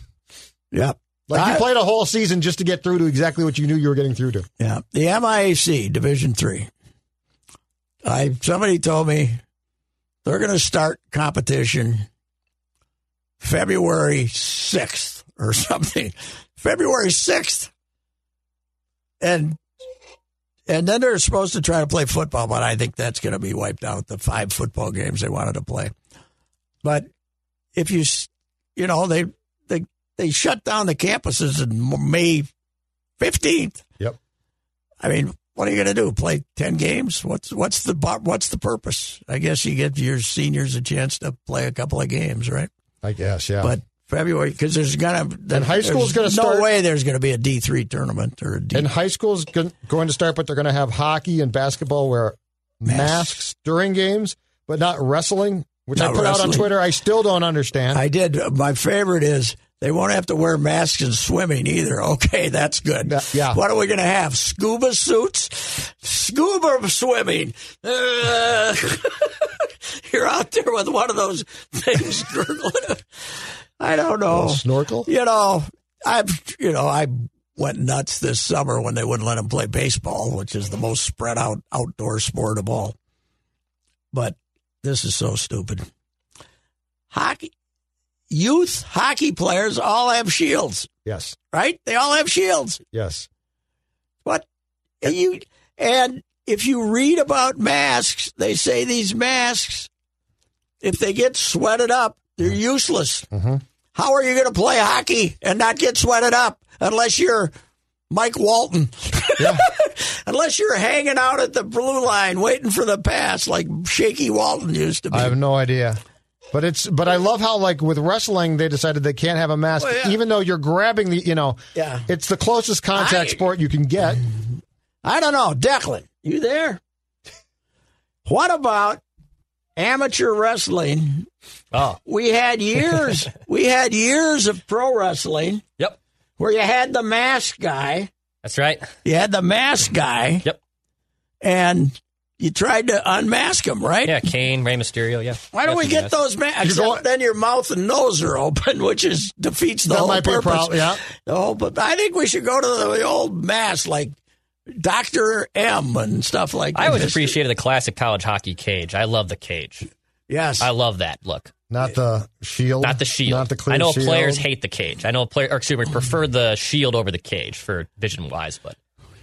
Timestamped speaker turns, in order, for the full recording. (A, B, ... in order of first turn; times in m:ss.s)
0:00.7-0:01.6 A
0:01.3-0:04.5 B
0:04.6-0:06.7 A
0:08.0-0:09.4 A
0:10.2-0:12.0 A
0:13.4-0:17.7 A
0:19.2-0:19.6 A
0:20.7-0:25.9 A
0:26.8-0:27.1 A
0:27.7-0:32.5 A
0:33.2-0:33.8 A
0:35.0-0:42.7 A
0:43.0-0:43.7 B
0:43.6-0:48.9 A
0:45.5-0:46.7 B
0:48.7-0:58.0 B
0:52.8-0:53.4 A
0:55.9-0:56.7 A
0:57.9-1:22.9 A
1:03.0-1:03.6 B
1:14.3-1:15.1 B
1:24.1-1:25.8 A
1:27.1-1:27.5 A
1:28.3-1:30.9 A
1:31.0-1:31.4 B
1:31.5-1:32.8 A
1:32.9-1:33.3 B
1:35.0-1:39.9 A
1:40.8-1:43.3 A
1:43.3-1:43.6 B
1:43.9-1:47.5 A
1:48.1-1:55.3 A
1:49.4-1:49.6 B
1:55.1-1:56.0 B
1:56.5-2:04.2 B
1:59.8-2:00.2 A
2:01.7-2:02.1 A
2:02.9-2:03.4 A
2:05.0-2:06.8 A
2:08.2-2:09.0 A
2:09.8-2:11.3 A
2:11.7-2:12.0 C
2:12.0-2:15.6 A
2:16.4-2:18.1 A
2:18.4-2:18.9 C
2:19.0-2:20.4 A
2:21.4-2:24.3 A
2:24.0-2:26.2 C
2:25.5-2:34.1 A
2:26.6-2:27.0 B
2:29.9-2:31.0 B
2:34.8-2:37.4 A
2:36.7-2:39.9 C
2:40.3-2:40.7 A
2:40.6-2:41.5 C
2:41.7-2:44.4 B
2:42.8-2:48.8 C